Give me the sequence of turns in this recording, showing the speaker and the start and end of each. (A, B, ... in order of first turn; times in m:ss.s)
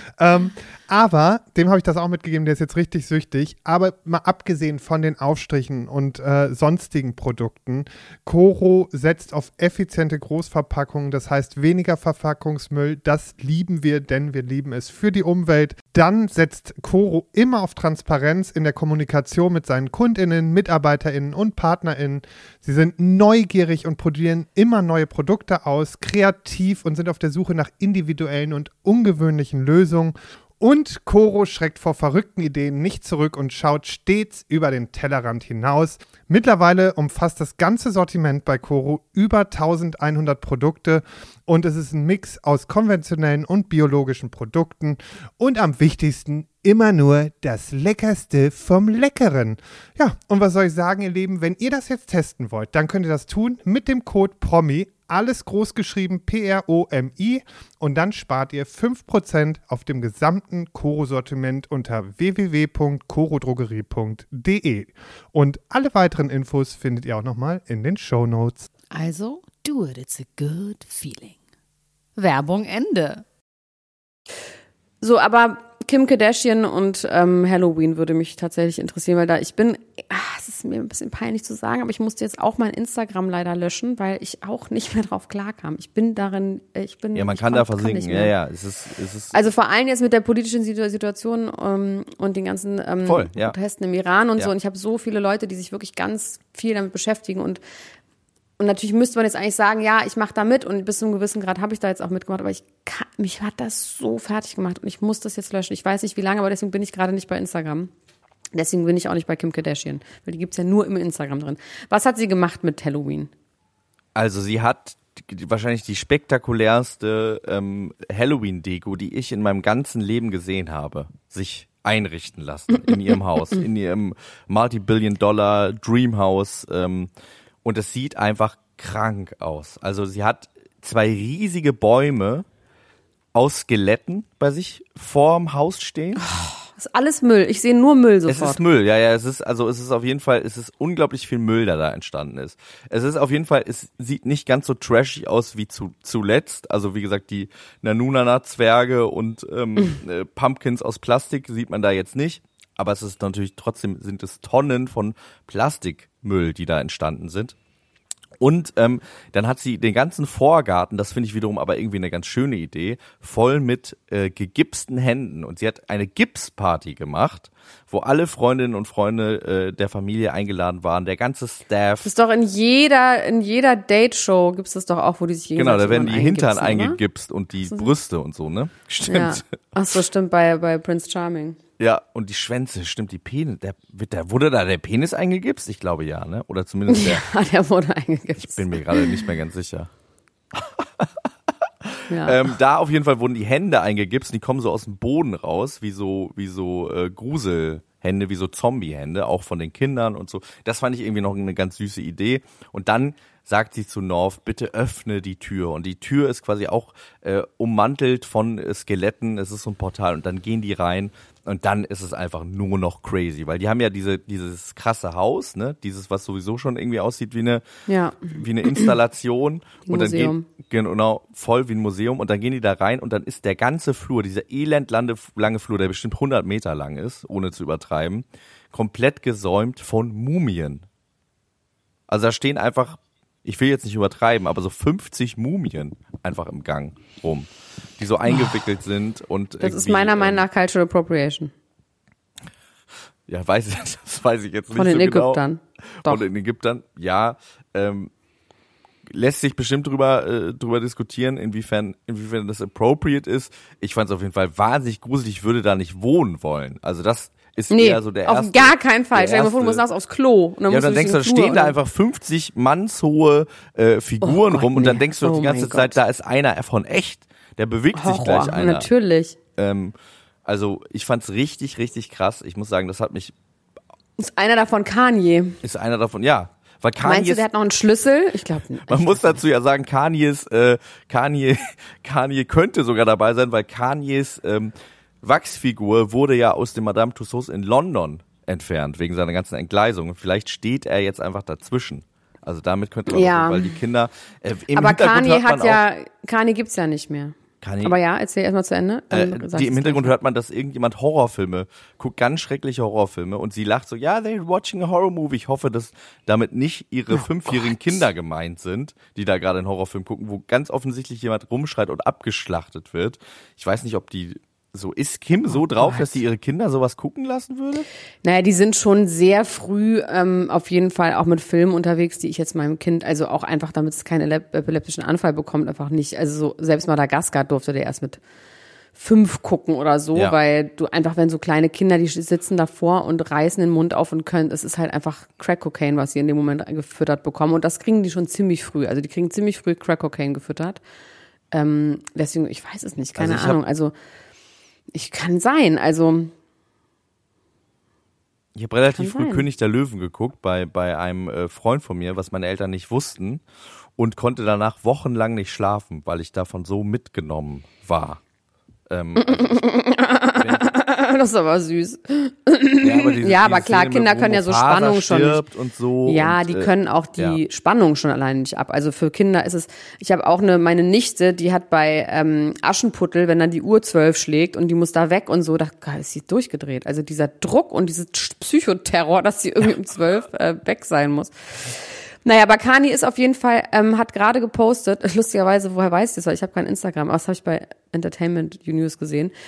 0:00.2-1:08.7 A
1:08.9-1:11.4 B
1:12.2-1:13.2 B
1:15.0-1:28.3 B
1:27.1-1:29.4 C
1:29.3-1:37.6 B
1:33.0-1:33.6 C
1:38.6-1:47.9 B
1:48.5-1:53.3 B
1:54.1-2:07.1 C
2:07.6-2:12.4 C
2:13.3-2:16.3 C
2:16.2-2:18.6 B
2:18.3-2:37.5 C
2:38.4-2:52.1 C
2:52.0-2:57.0 B
2:55.6-2:59.5 C
2:59.1-3:01.6 B
3:01.8-3:07.3 C
3:06.9-3:09.2 B
3:08.4-3:09.9 C
3:10.5-3:11.1 C
3:11.8-3:37.6 C
3:12.1-3:12.5 B
3:37.9-3:38.9 B
3:38.3-3:50.8 C
3:39.9-3:40.4 B
3:52.1-3:57.5 C
3:58.0-4:00.4 C
3:58.3-3:58.5 B
3:59.6-4:01.5 B
4:03.3-4:05.4 C
4:04.7-4:06.2 B
4:06.0-4:08.1 C
4:09.1-4:19.8 C
4:17.7-4:21.7 B
4:20.7-4:28.9 C
4:24.2-4:26.0 B
4:27.9-4:29.4 B
4:29.5-4:29.9 C
4:30.4-4:33.3 C
4:34.2-4:35.6 B
4:35.6-4:37.4 C
4:37.0-4:39.4 B
4:38.9-4:55.8 C
4:53.1-4:53.7 B
4:54.7-5:00.1 B
4:57.6-4:58.0 C
4:59.1-5:17.9 C
5:07.2-5:07.7 B
5:15.5-5:16.1 B
5:18.2-5:28.2 B
5:29.0-5:40.8 B
5:41.5-5:43.9 B
5:43.2-5:43.6 C
5:44.9-5:46.3 B
5:48.5-5:53.4 C
5:49.0-5:49.4 B
5:54.0-5:58.2 C
5:58.9-5:59.6 C
5:59.2-6:05.4 B
6:00.4-6:00.6 C
6:02.8-6:07.4 C
6:06.0-6:29.3 B